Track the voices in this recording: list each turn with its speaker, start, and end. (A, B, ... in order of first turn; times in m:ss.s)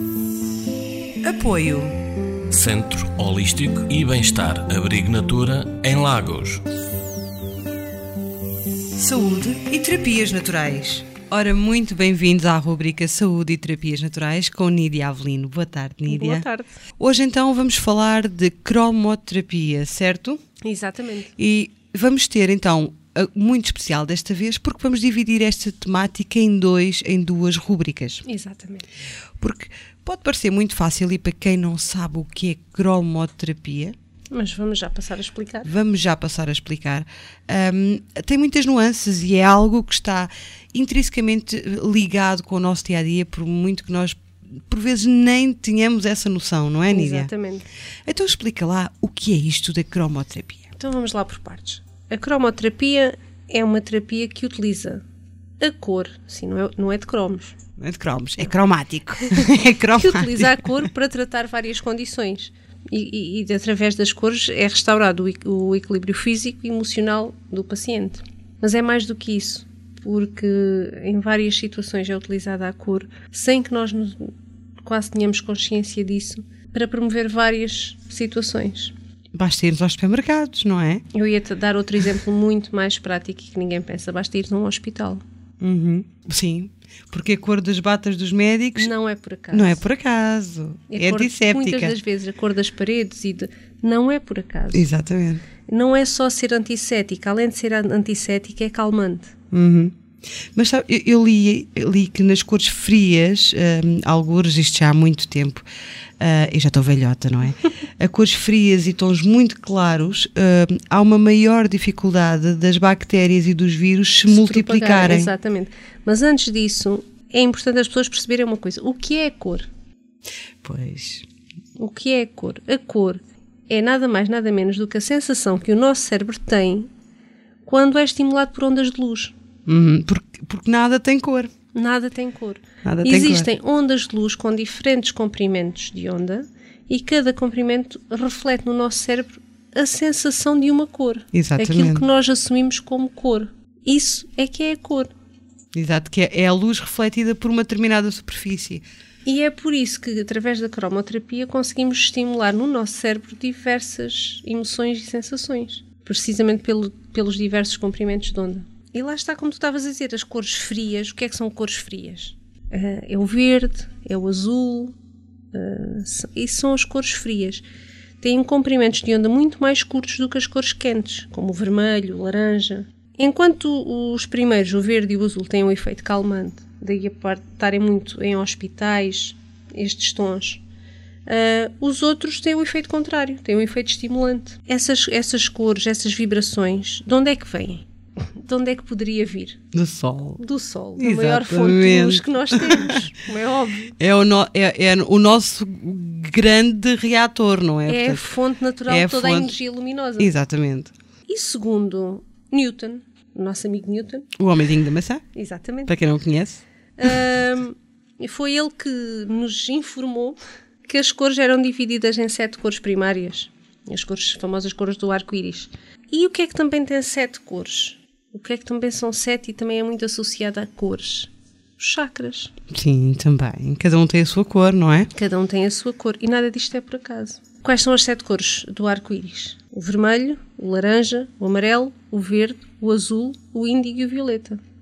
0:01.2-0:02.0 A
0:02.5-0:06.6 B
0:09.0-0:16.5 A
0:16.1-0:16.8 C
0:17.0-0:20.4 A
0:20.6-0:21.3 C
0:21.4-0:28.2 A
0:28.2-0:28.9 C
0:29.4-0:33.9 A
0:34.3-0:35.7 C
0:35.6-0:47.3 A
0:46.9-0:47.7 C
0:48.1-0:50.7 A
0:50.8-0:55.0 C
0:55.6-0:57.6 C
0:57.8-1:00.8 A
0:59.2-0:59.4 C
1:00.0-1:14.3 C
1:14.8-1:18.9 C
1:19.4-1:21.0 A
1:21.1-1:25.2 C
1:25.6-1:28.9 A
1:28.8-1:29.8 C
1:29.5-1:32.0 A
1:30.9-1:34.9 C
1:34.7-1:35.4 A
1:35.7-1:39.3 C
1:39.5-1:39.9 A
1:40.6-1:45.6 A
1:46.2-1:55.3 A
1:54.3-1:59.7 C
2:00.6-2:01.2 A
2:01.8-2:06.9 C
2:07.6-2:09.4 C
2:09.7-2:11.5 A
2:11.7-2:25.1 C
2:12.8-2:13.5 A
2:21.3-2:22.1 A
2:25.7-2:28.8 A
2:29.2-2:45.0 C
2:45.5-2:47.6 C
2:48.2-3:00.6 C
3:01.3-3:09.6 C
3:09.7-3:10.4 A
3:10.4-3:14.0 C
3:11.0-3:13.1 A
3:14.0-3:18.3 A
3:17.9-3:20.3 C
3:18.9-3:19.6 A
3:20.2-3:20.9 A
3:21.3-3:24.3 C
3:24.4-3:25.2 A
3:25.3-3:25.9 C
3:25.9-3:26.6 A
3:27.0-3:42.5 C
3:42.7-3:45.1 A
3:45.1-3:54.6 C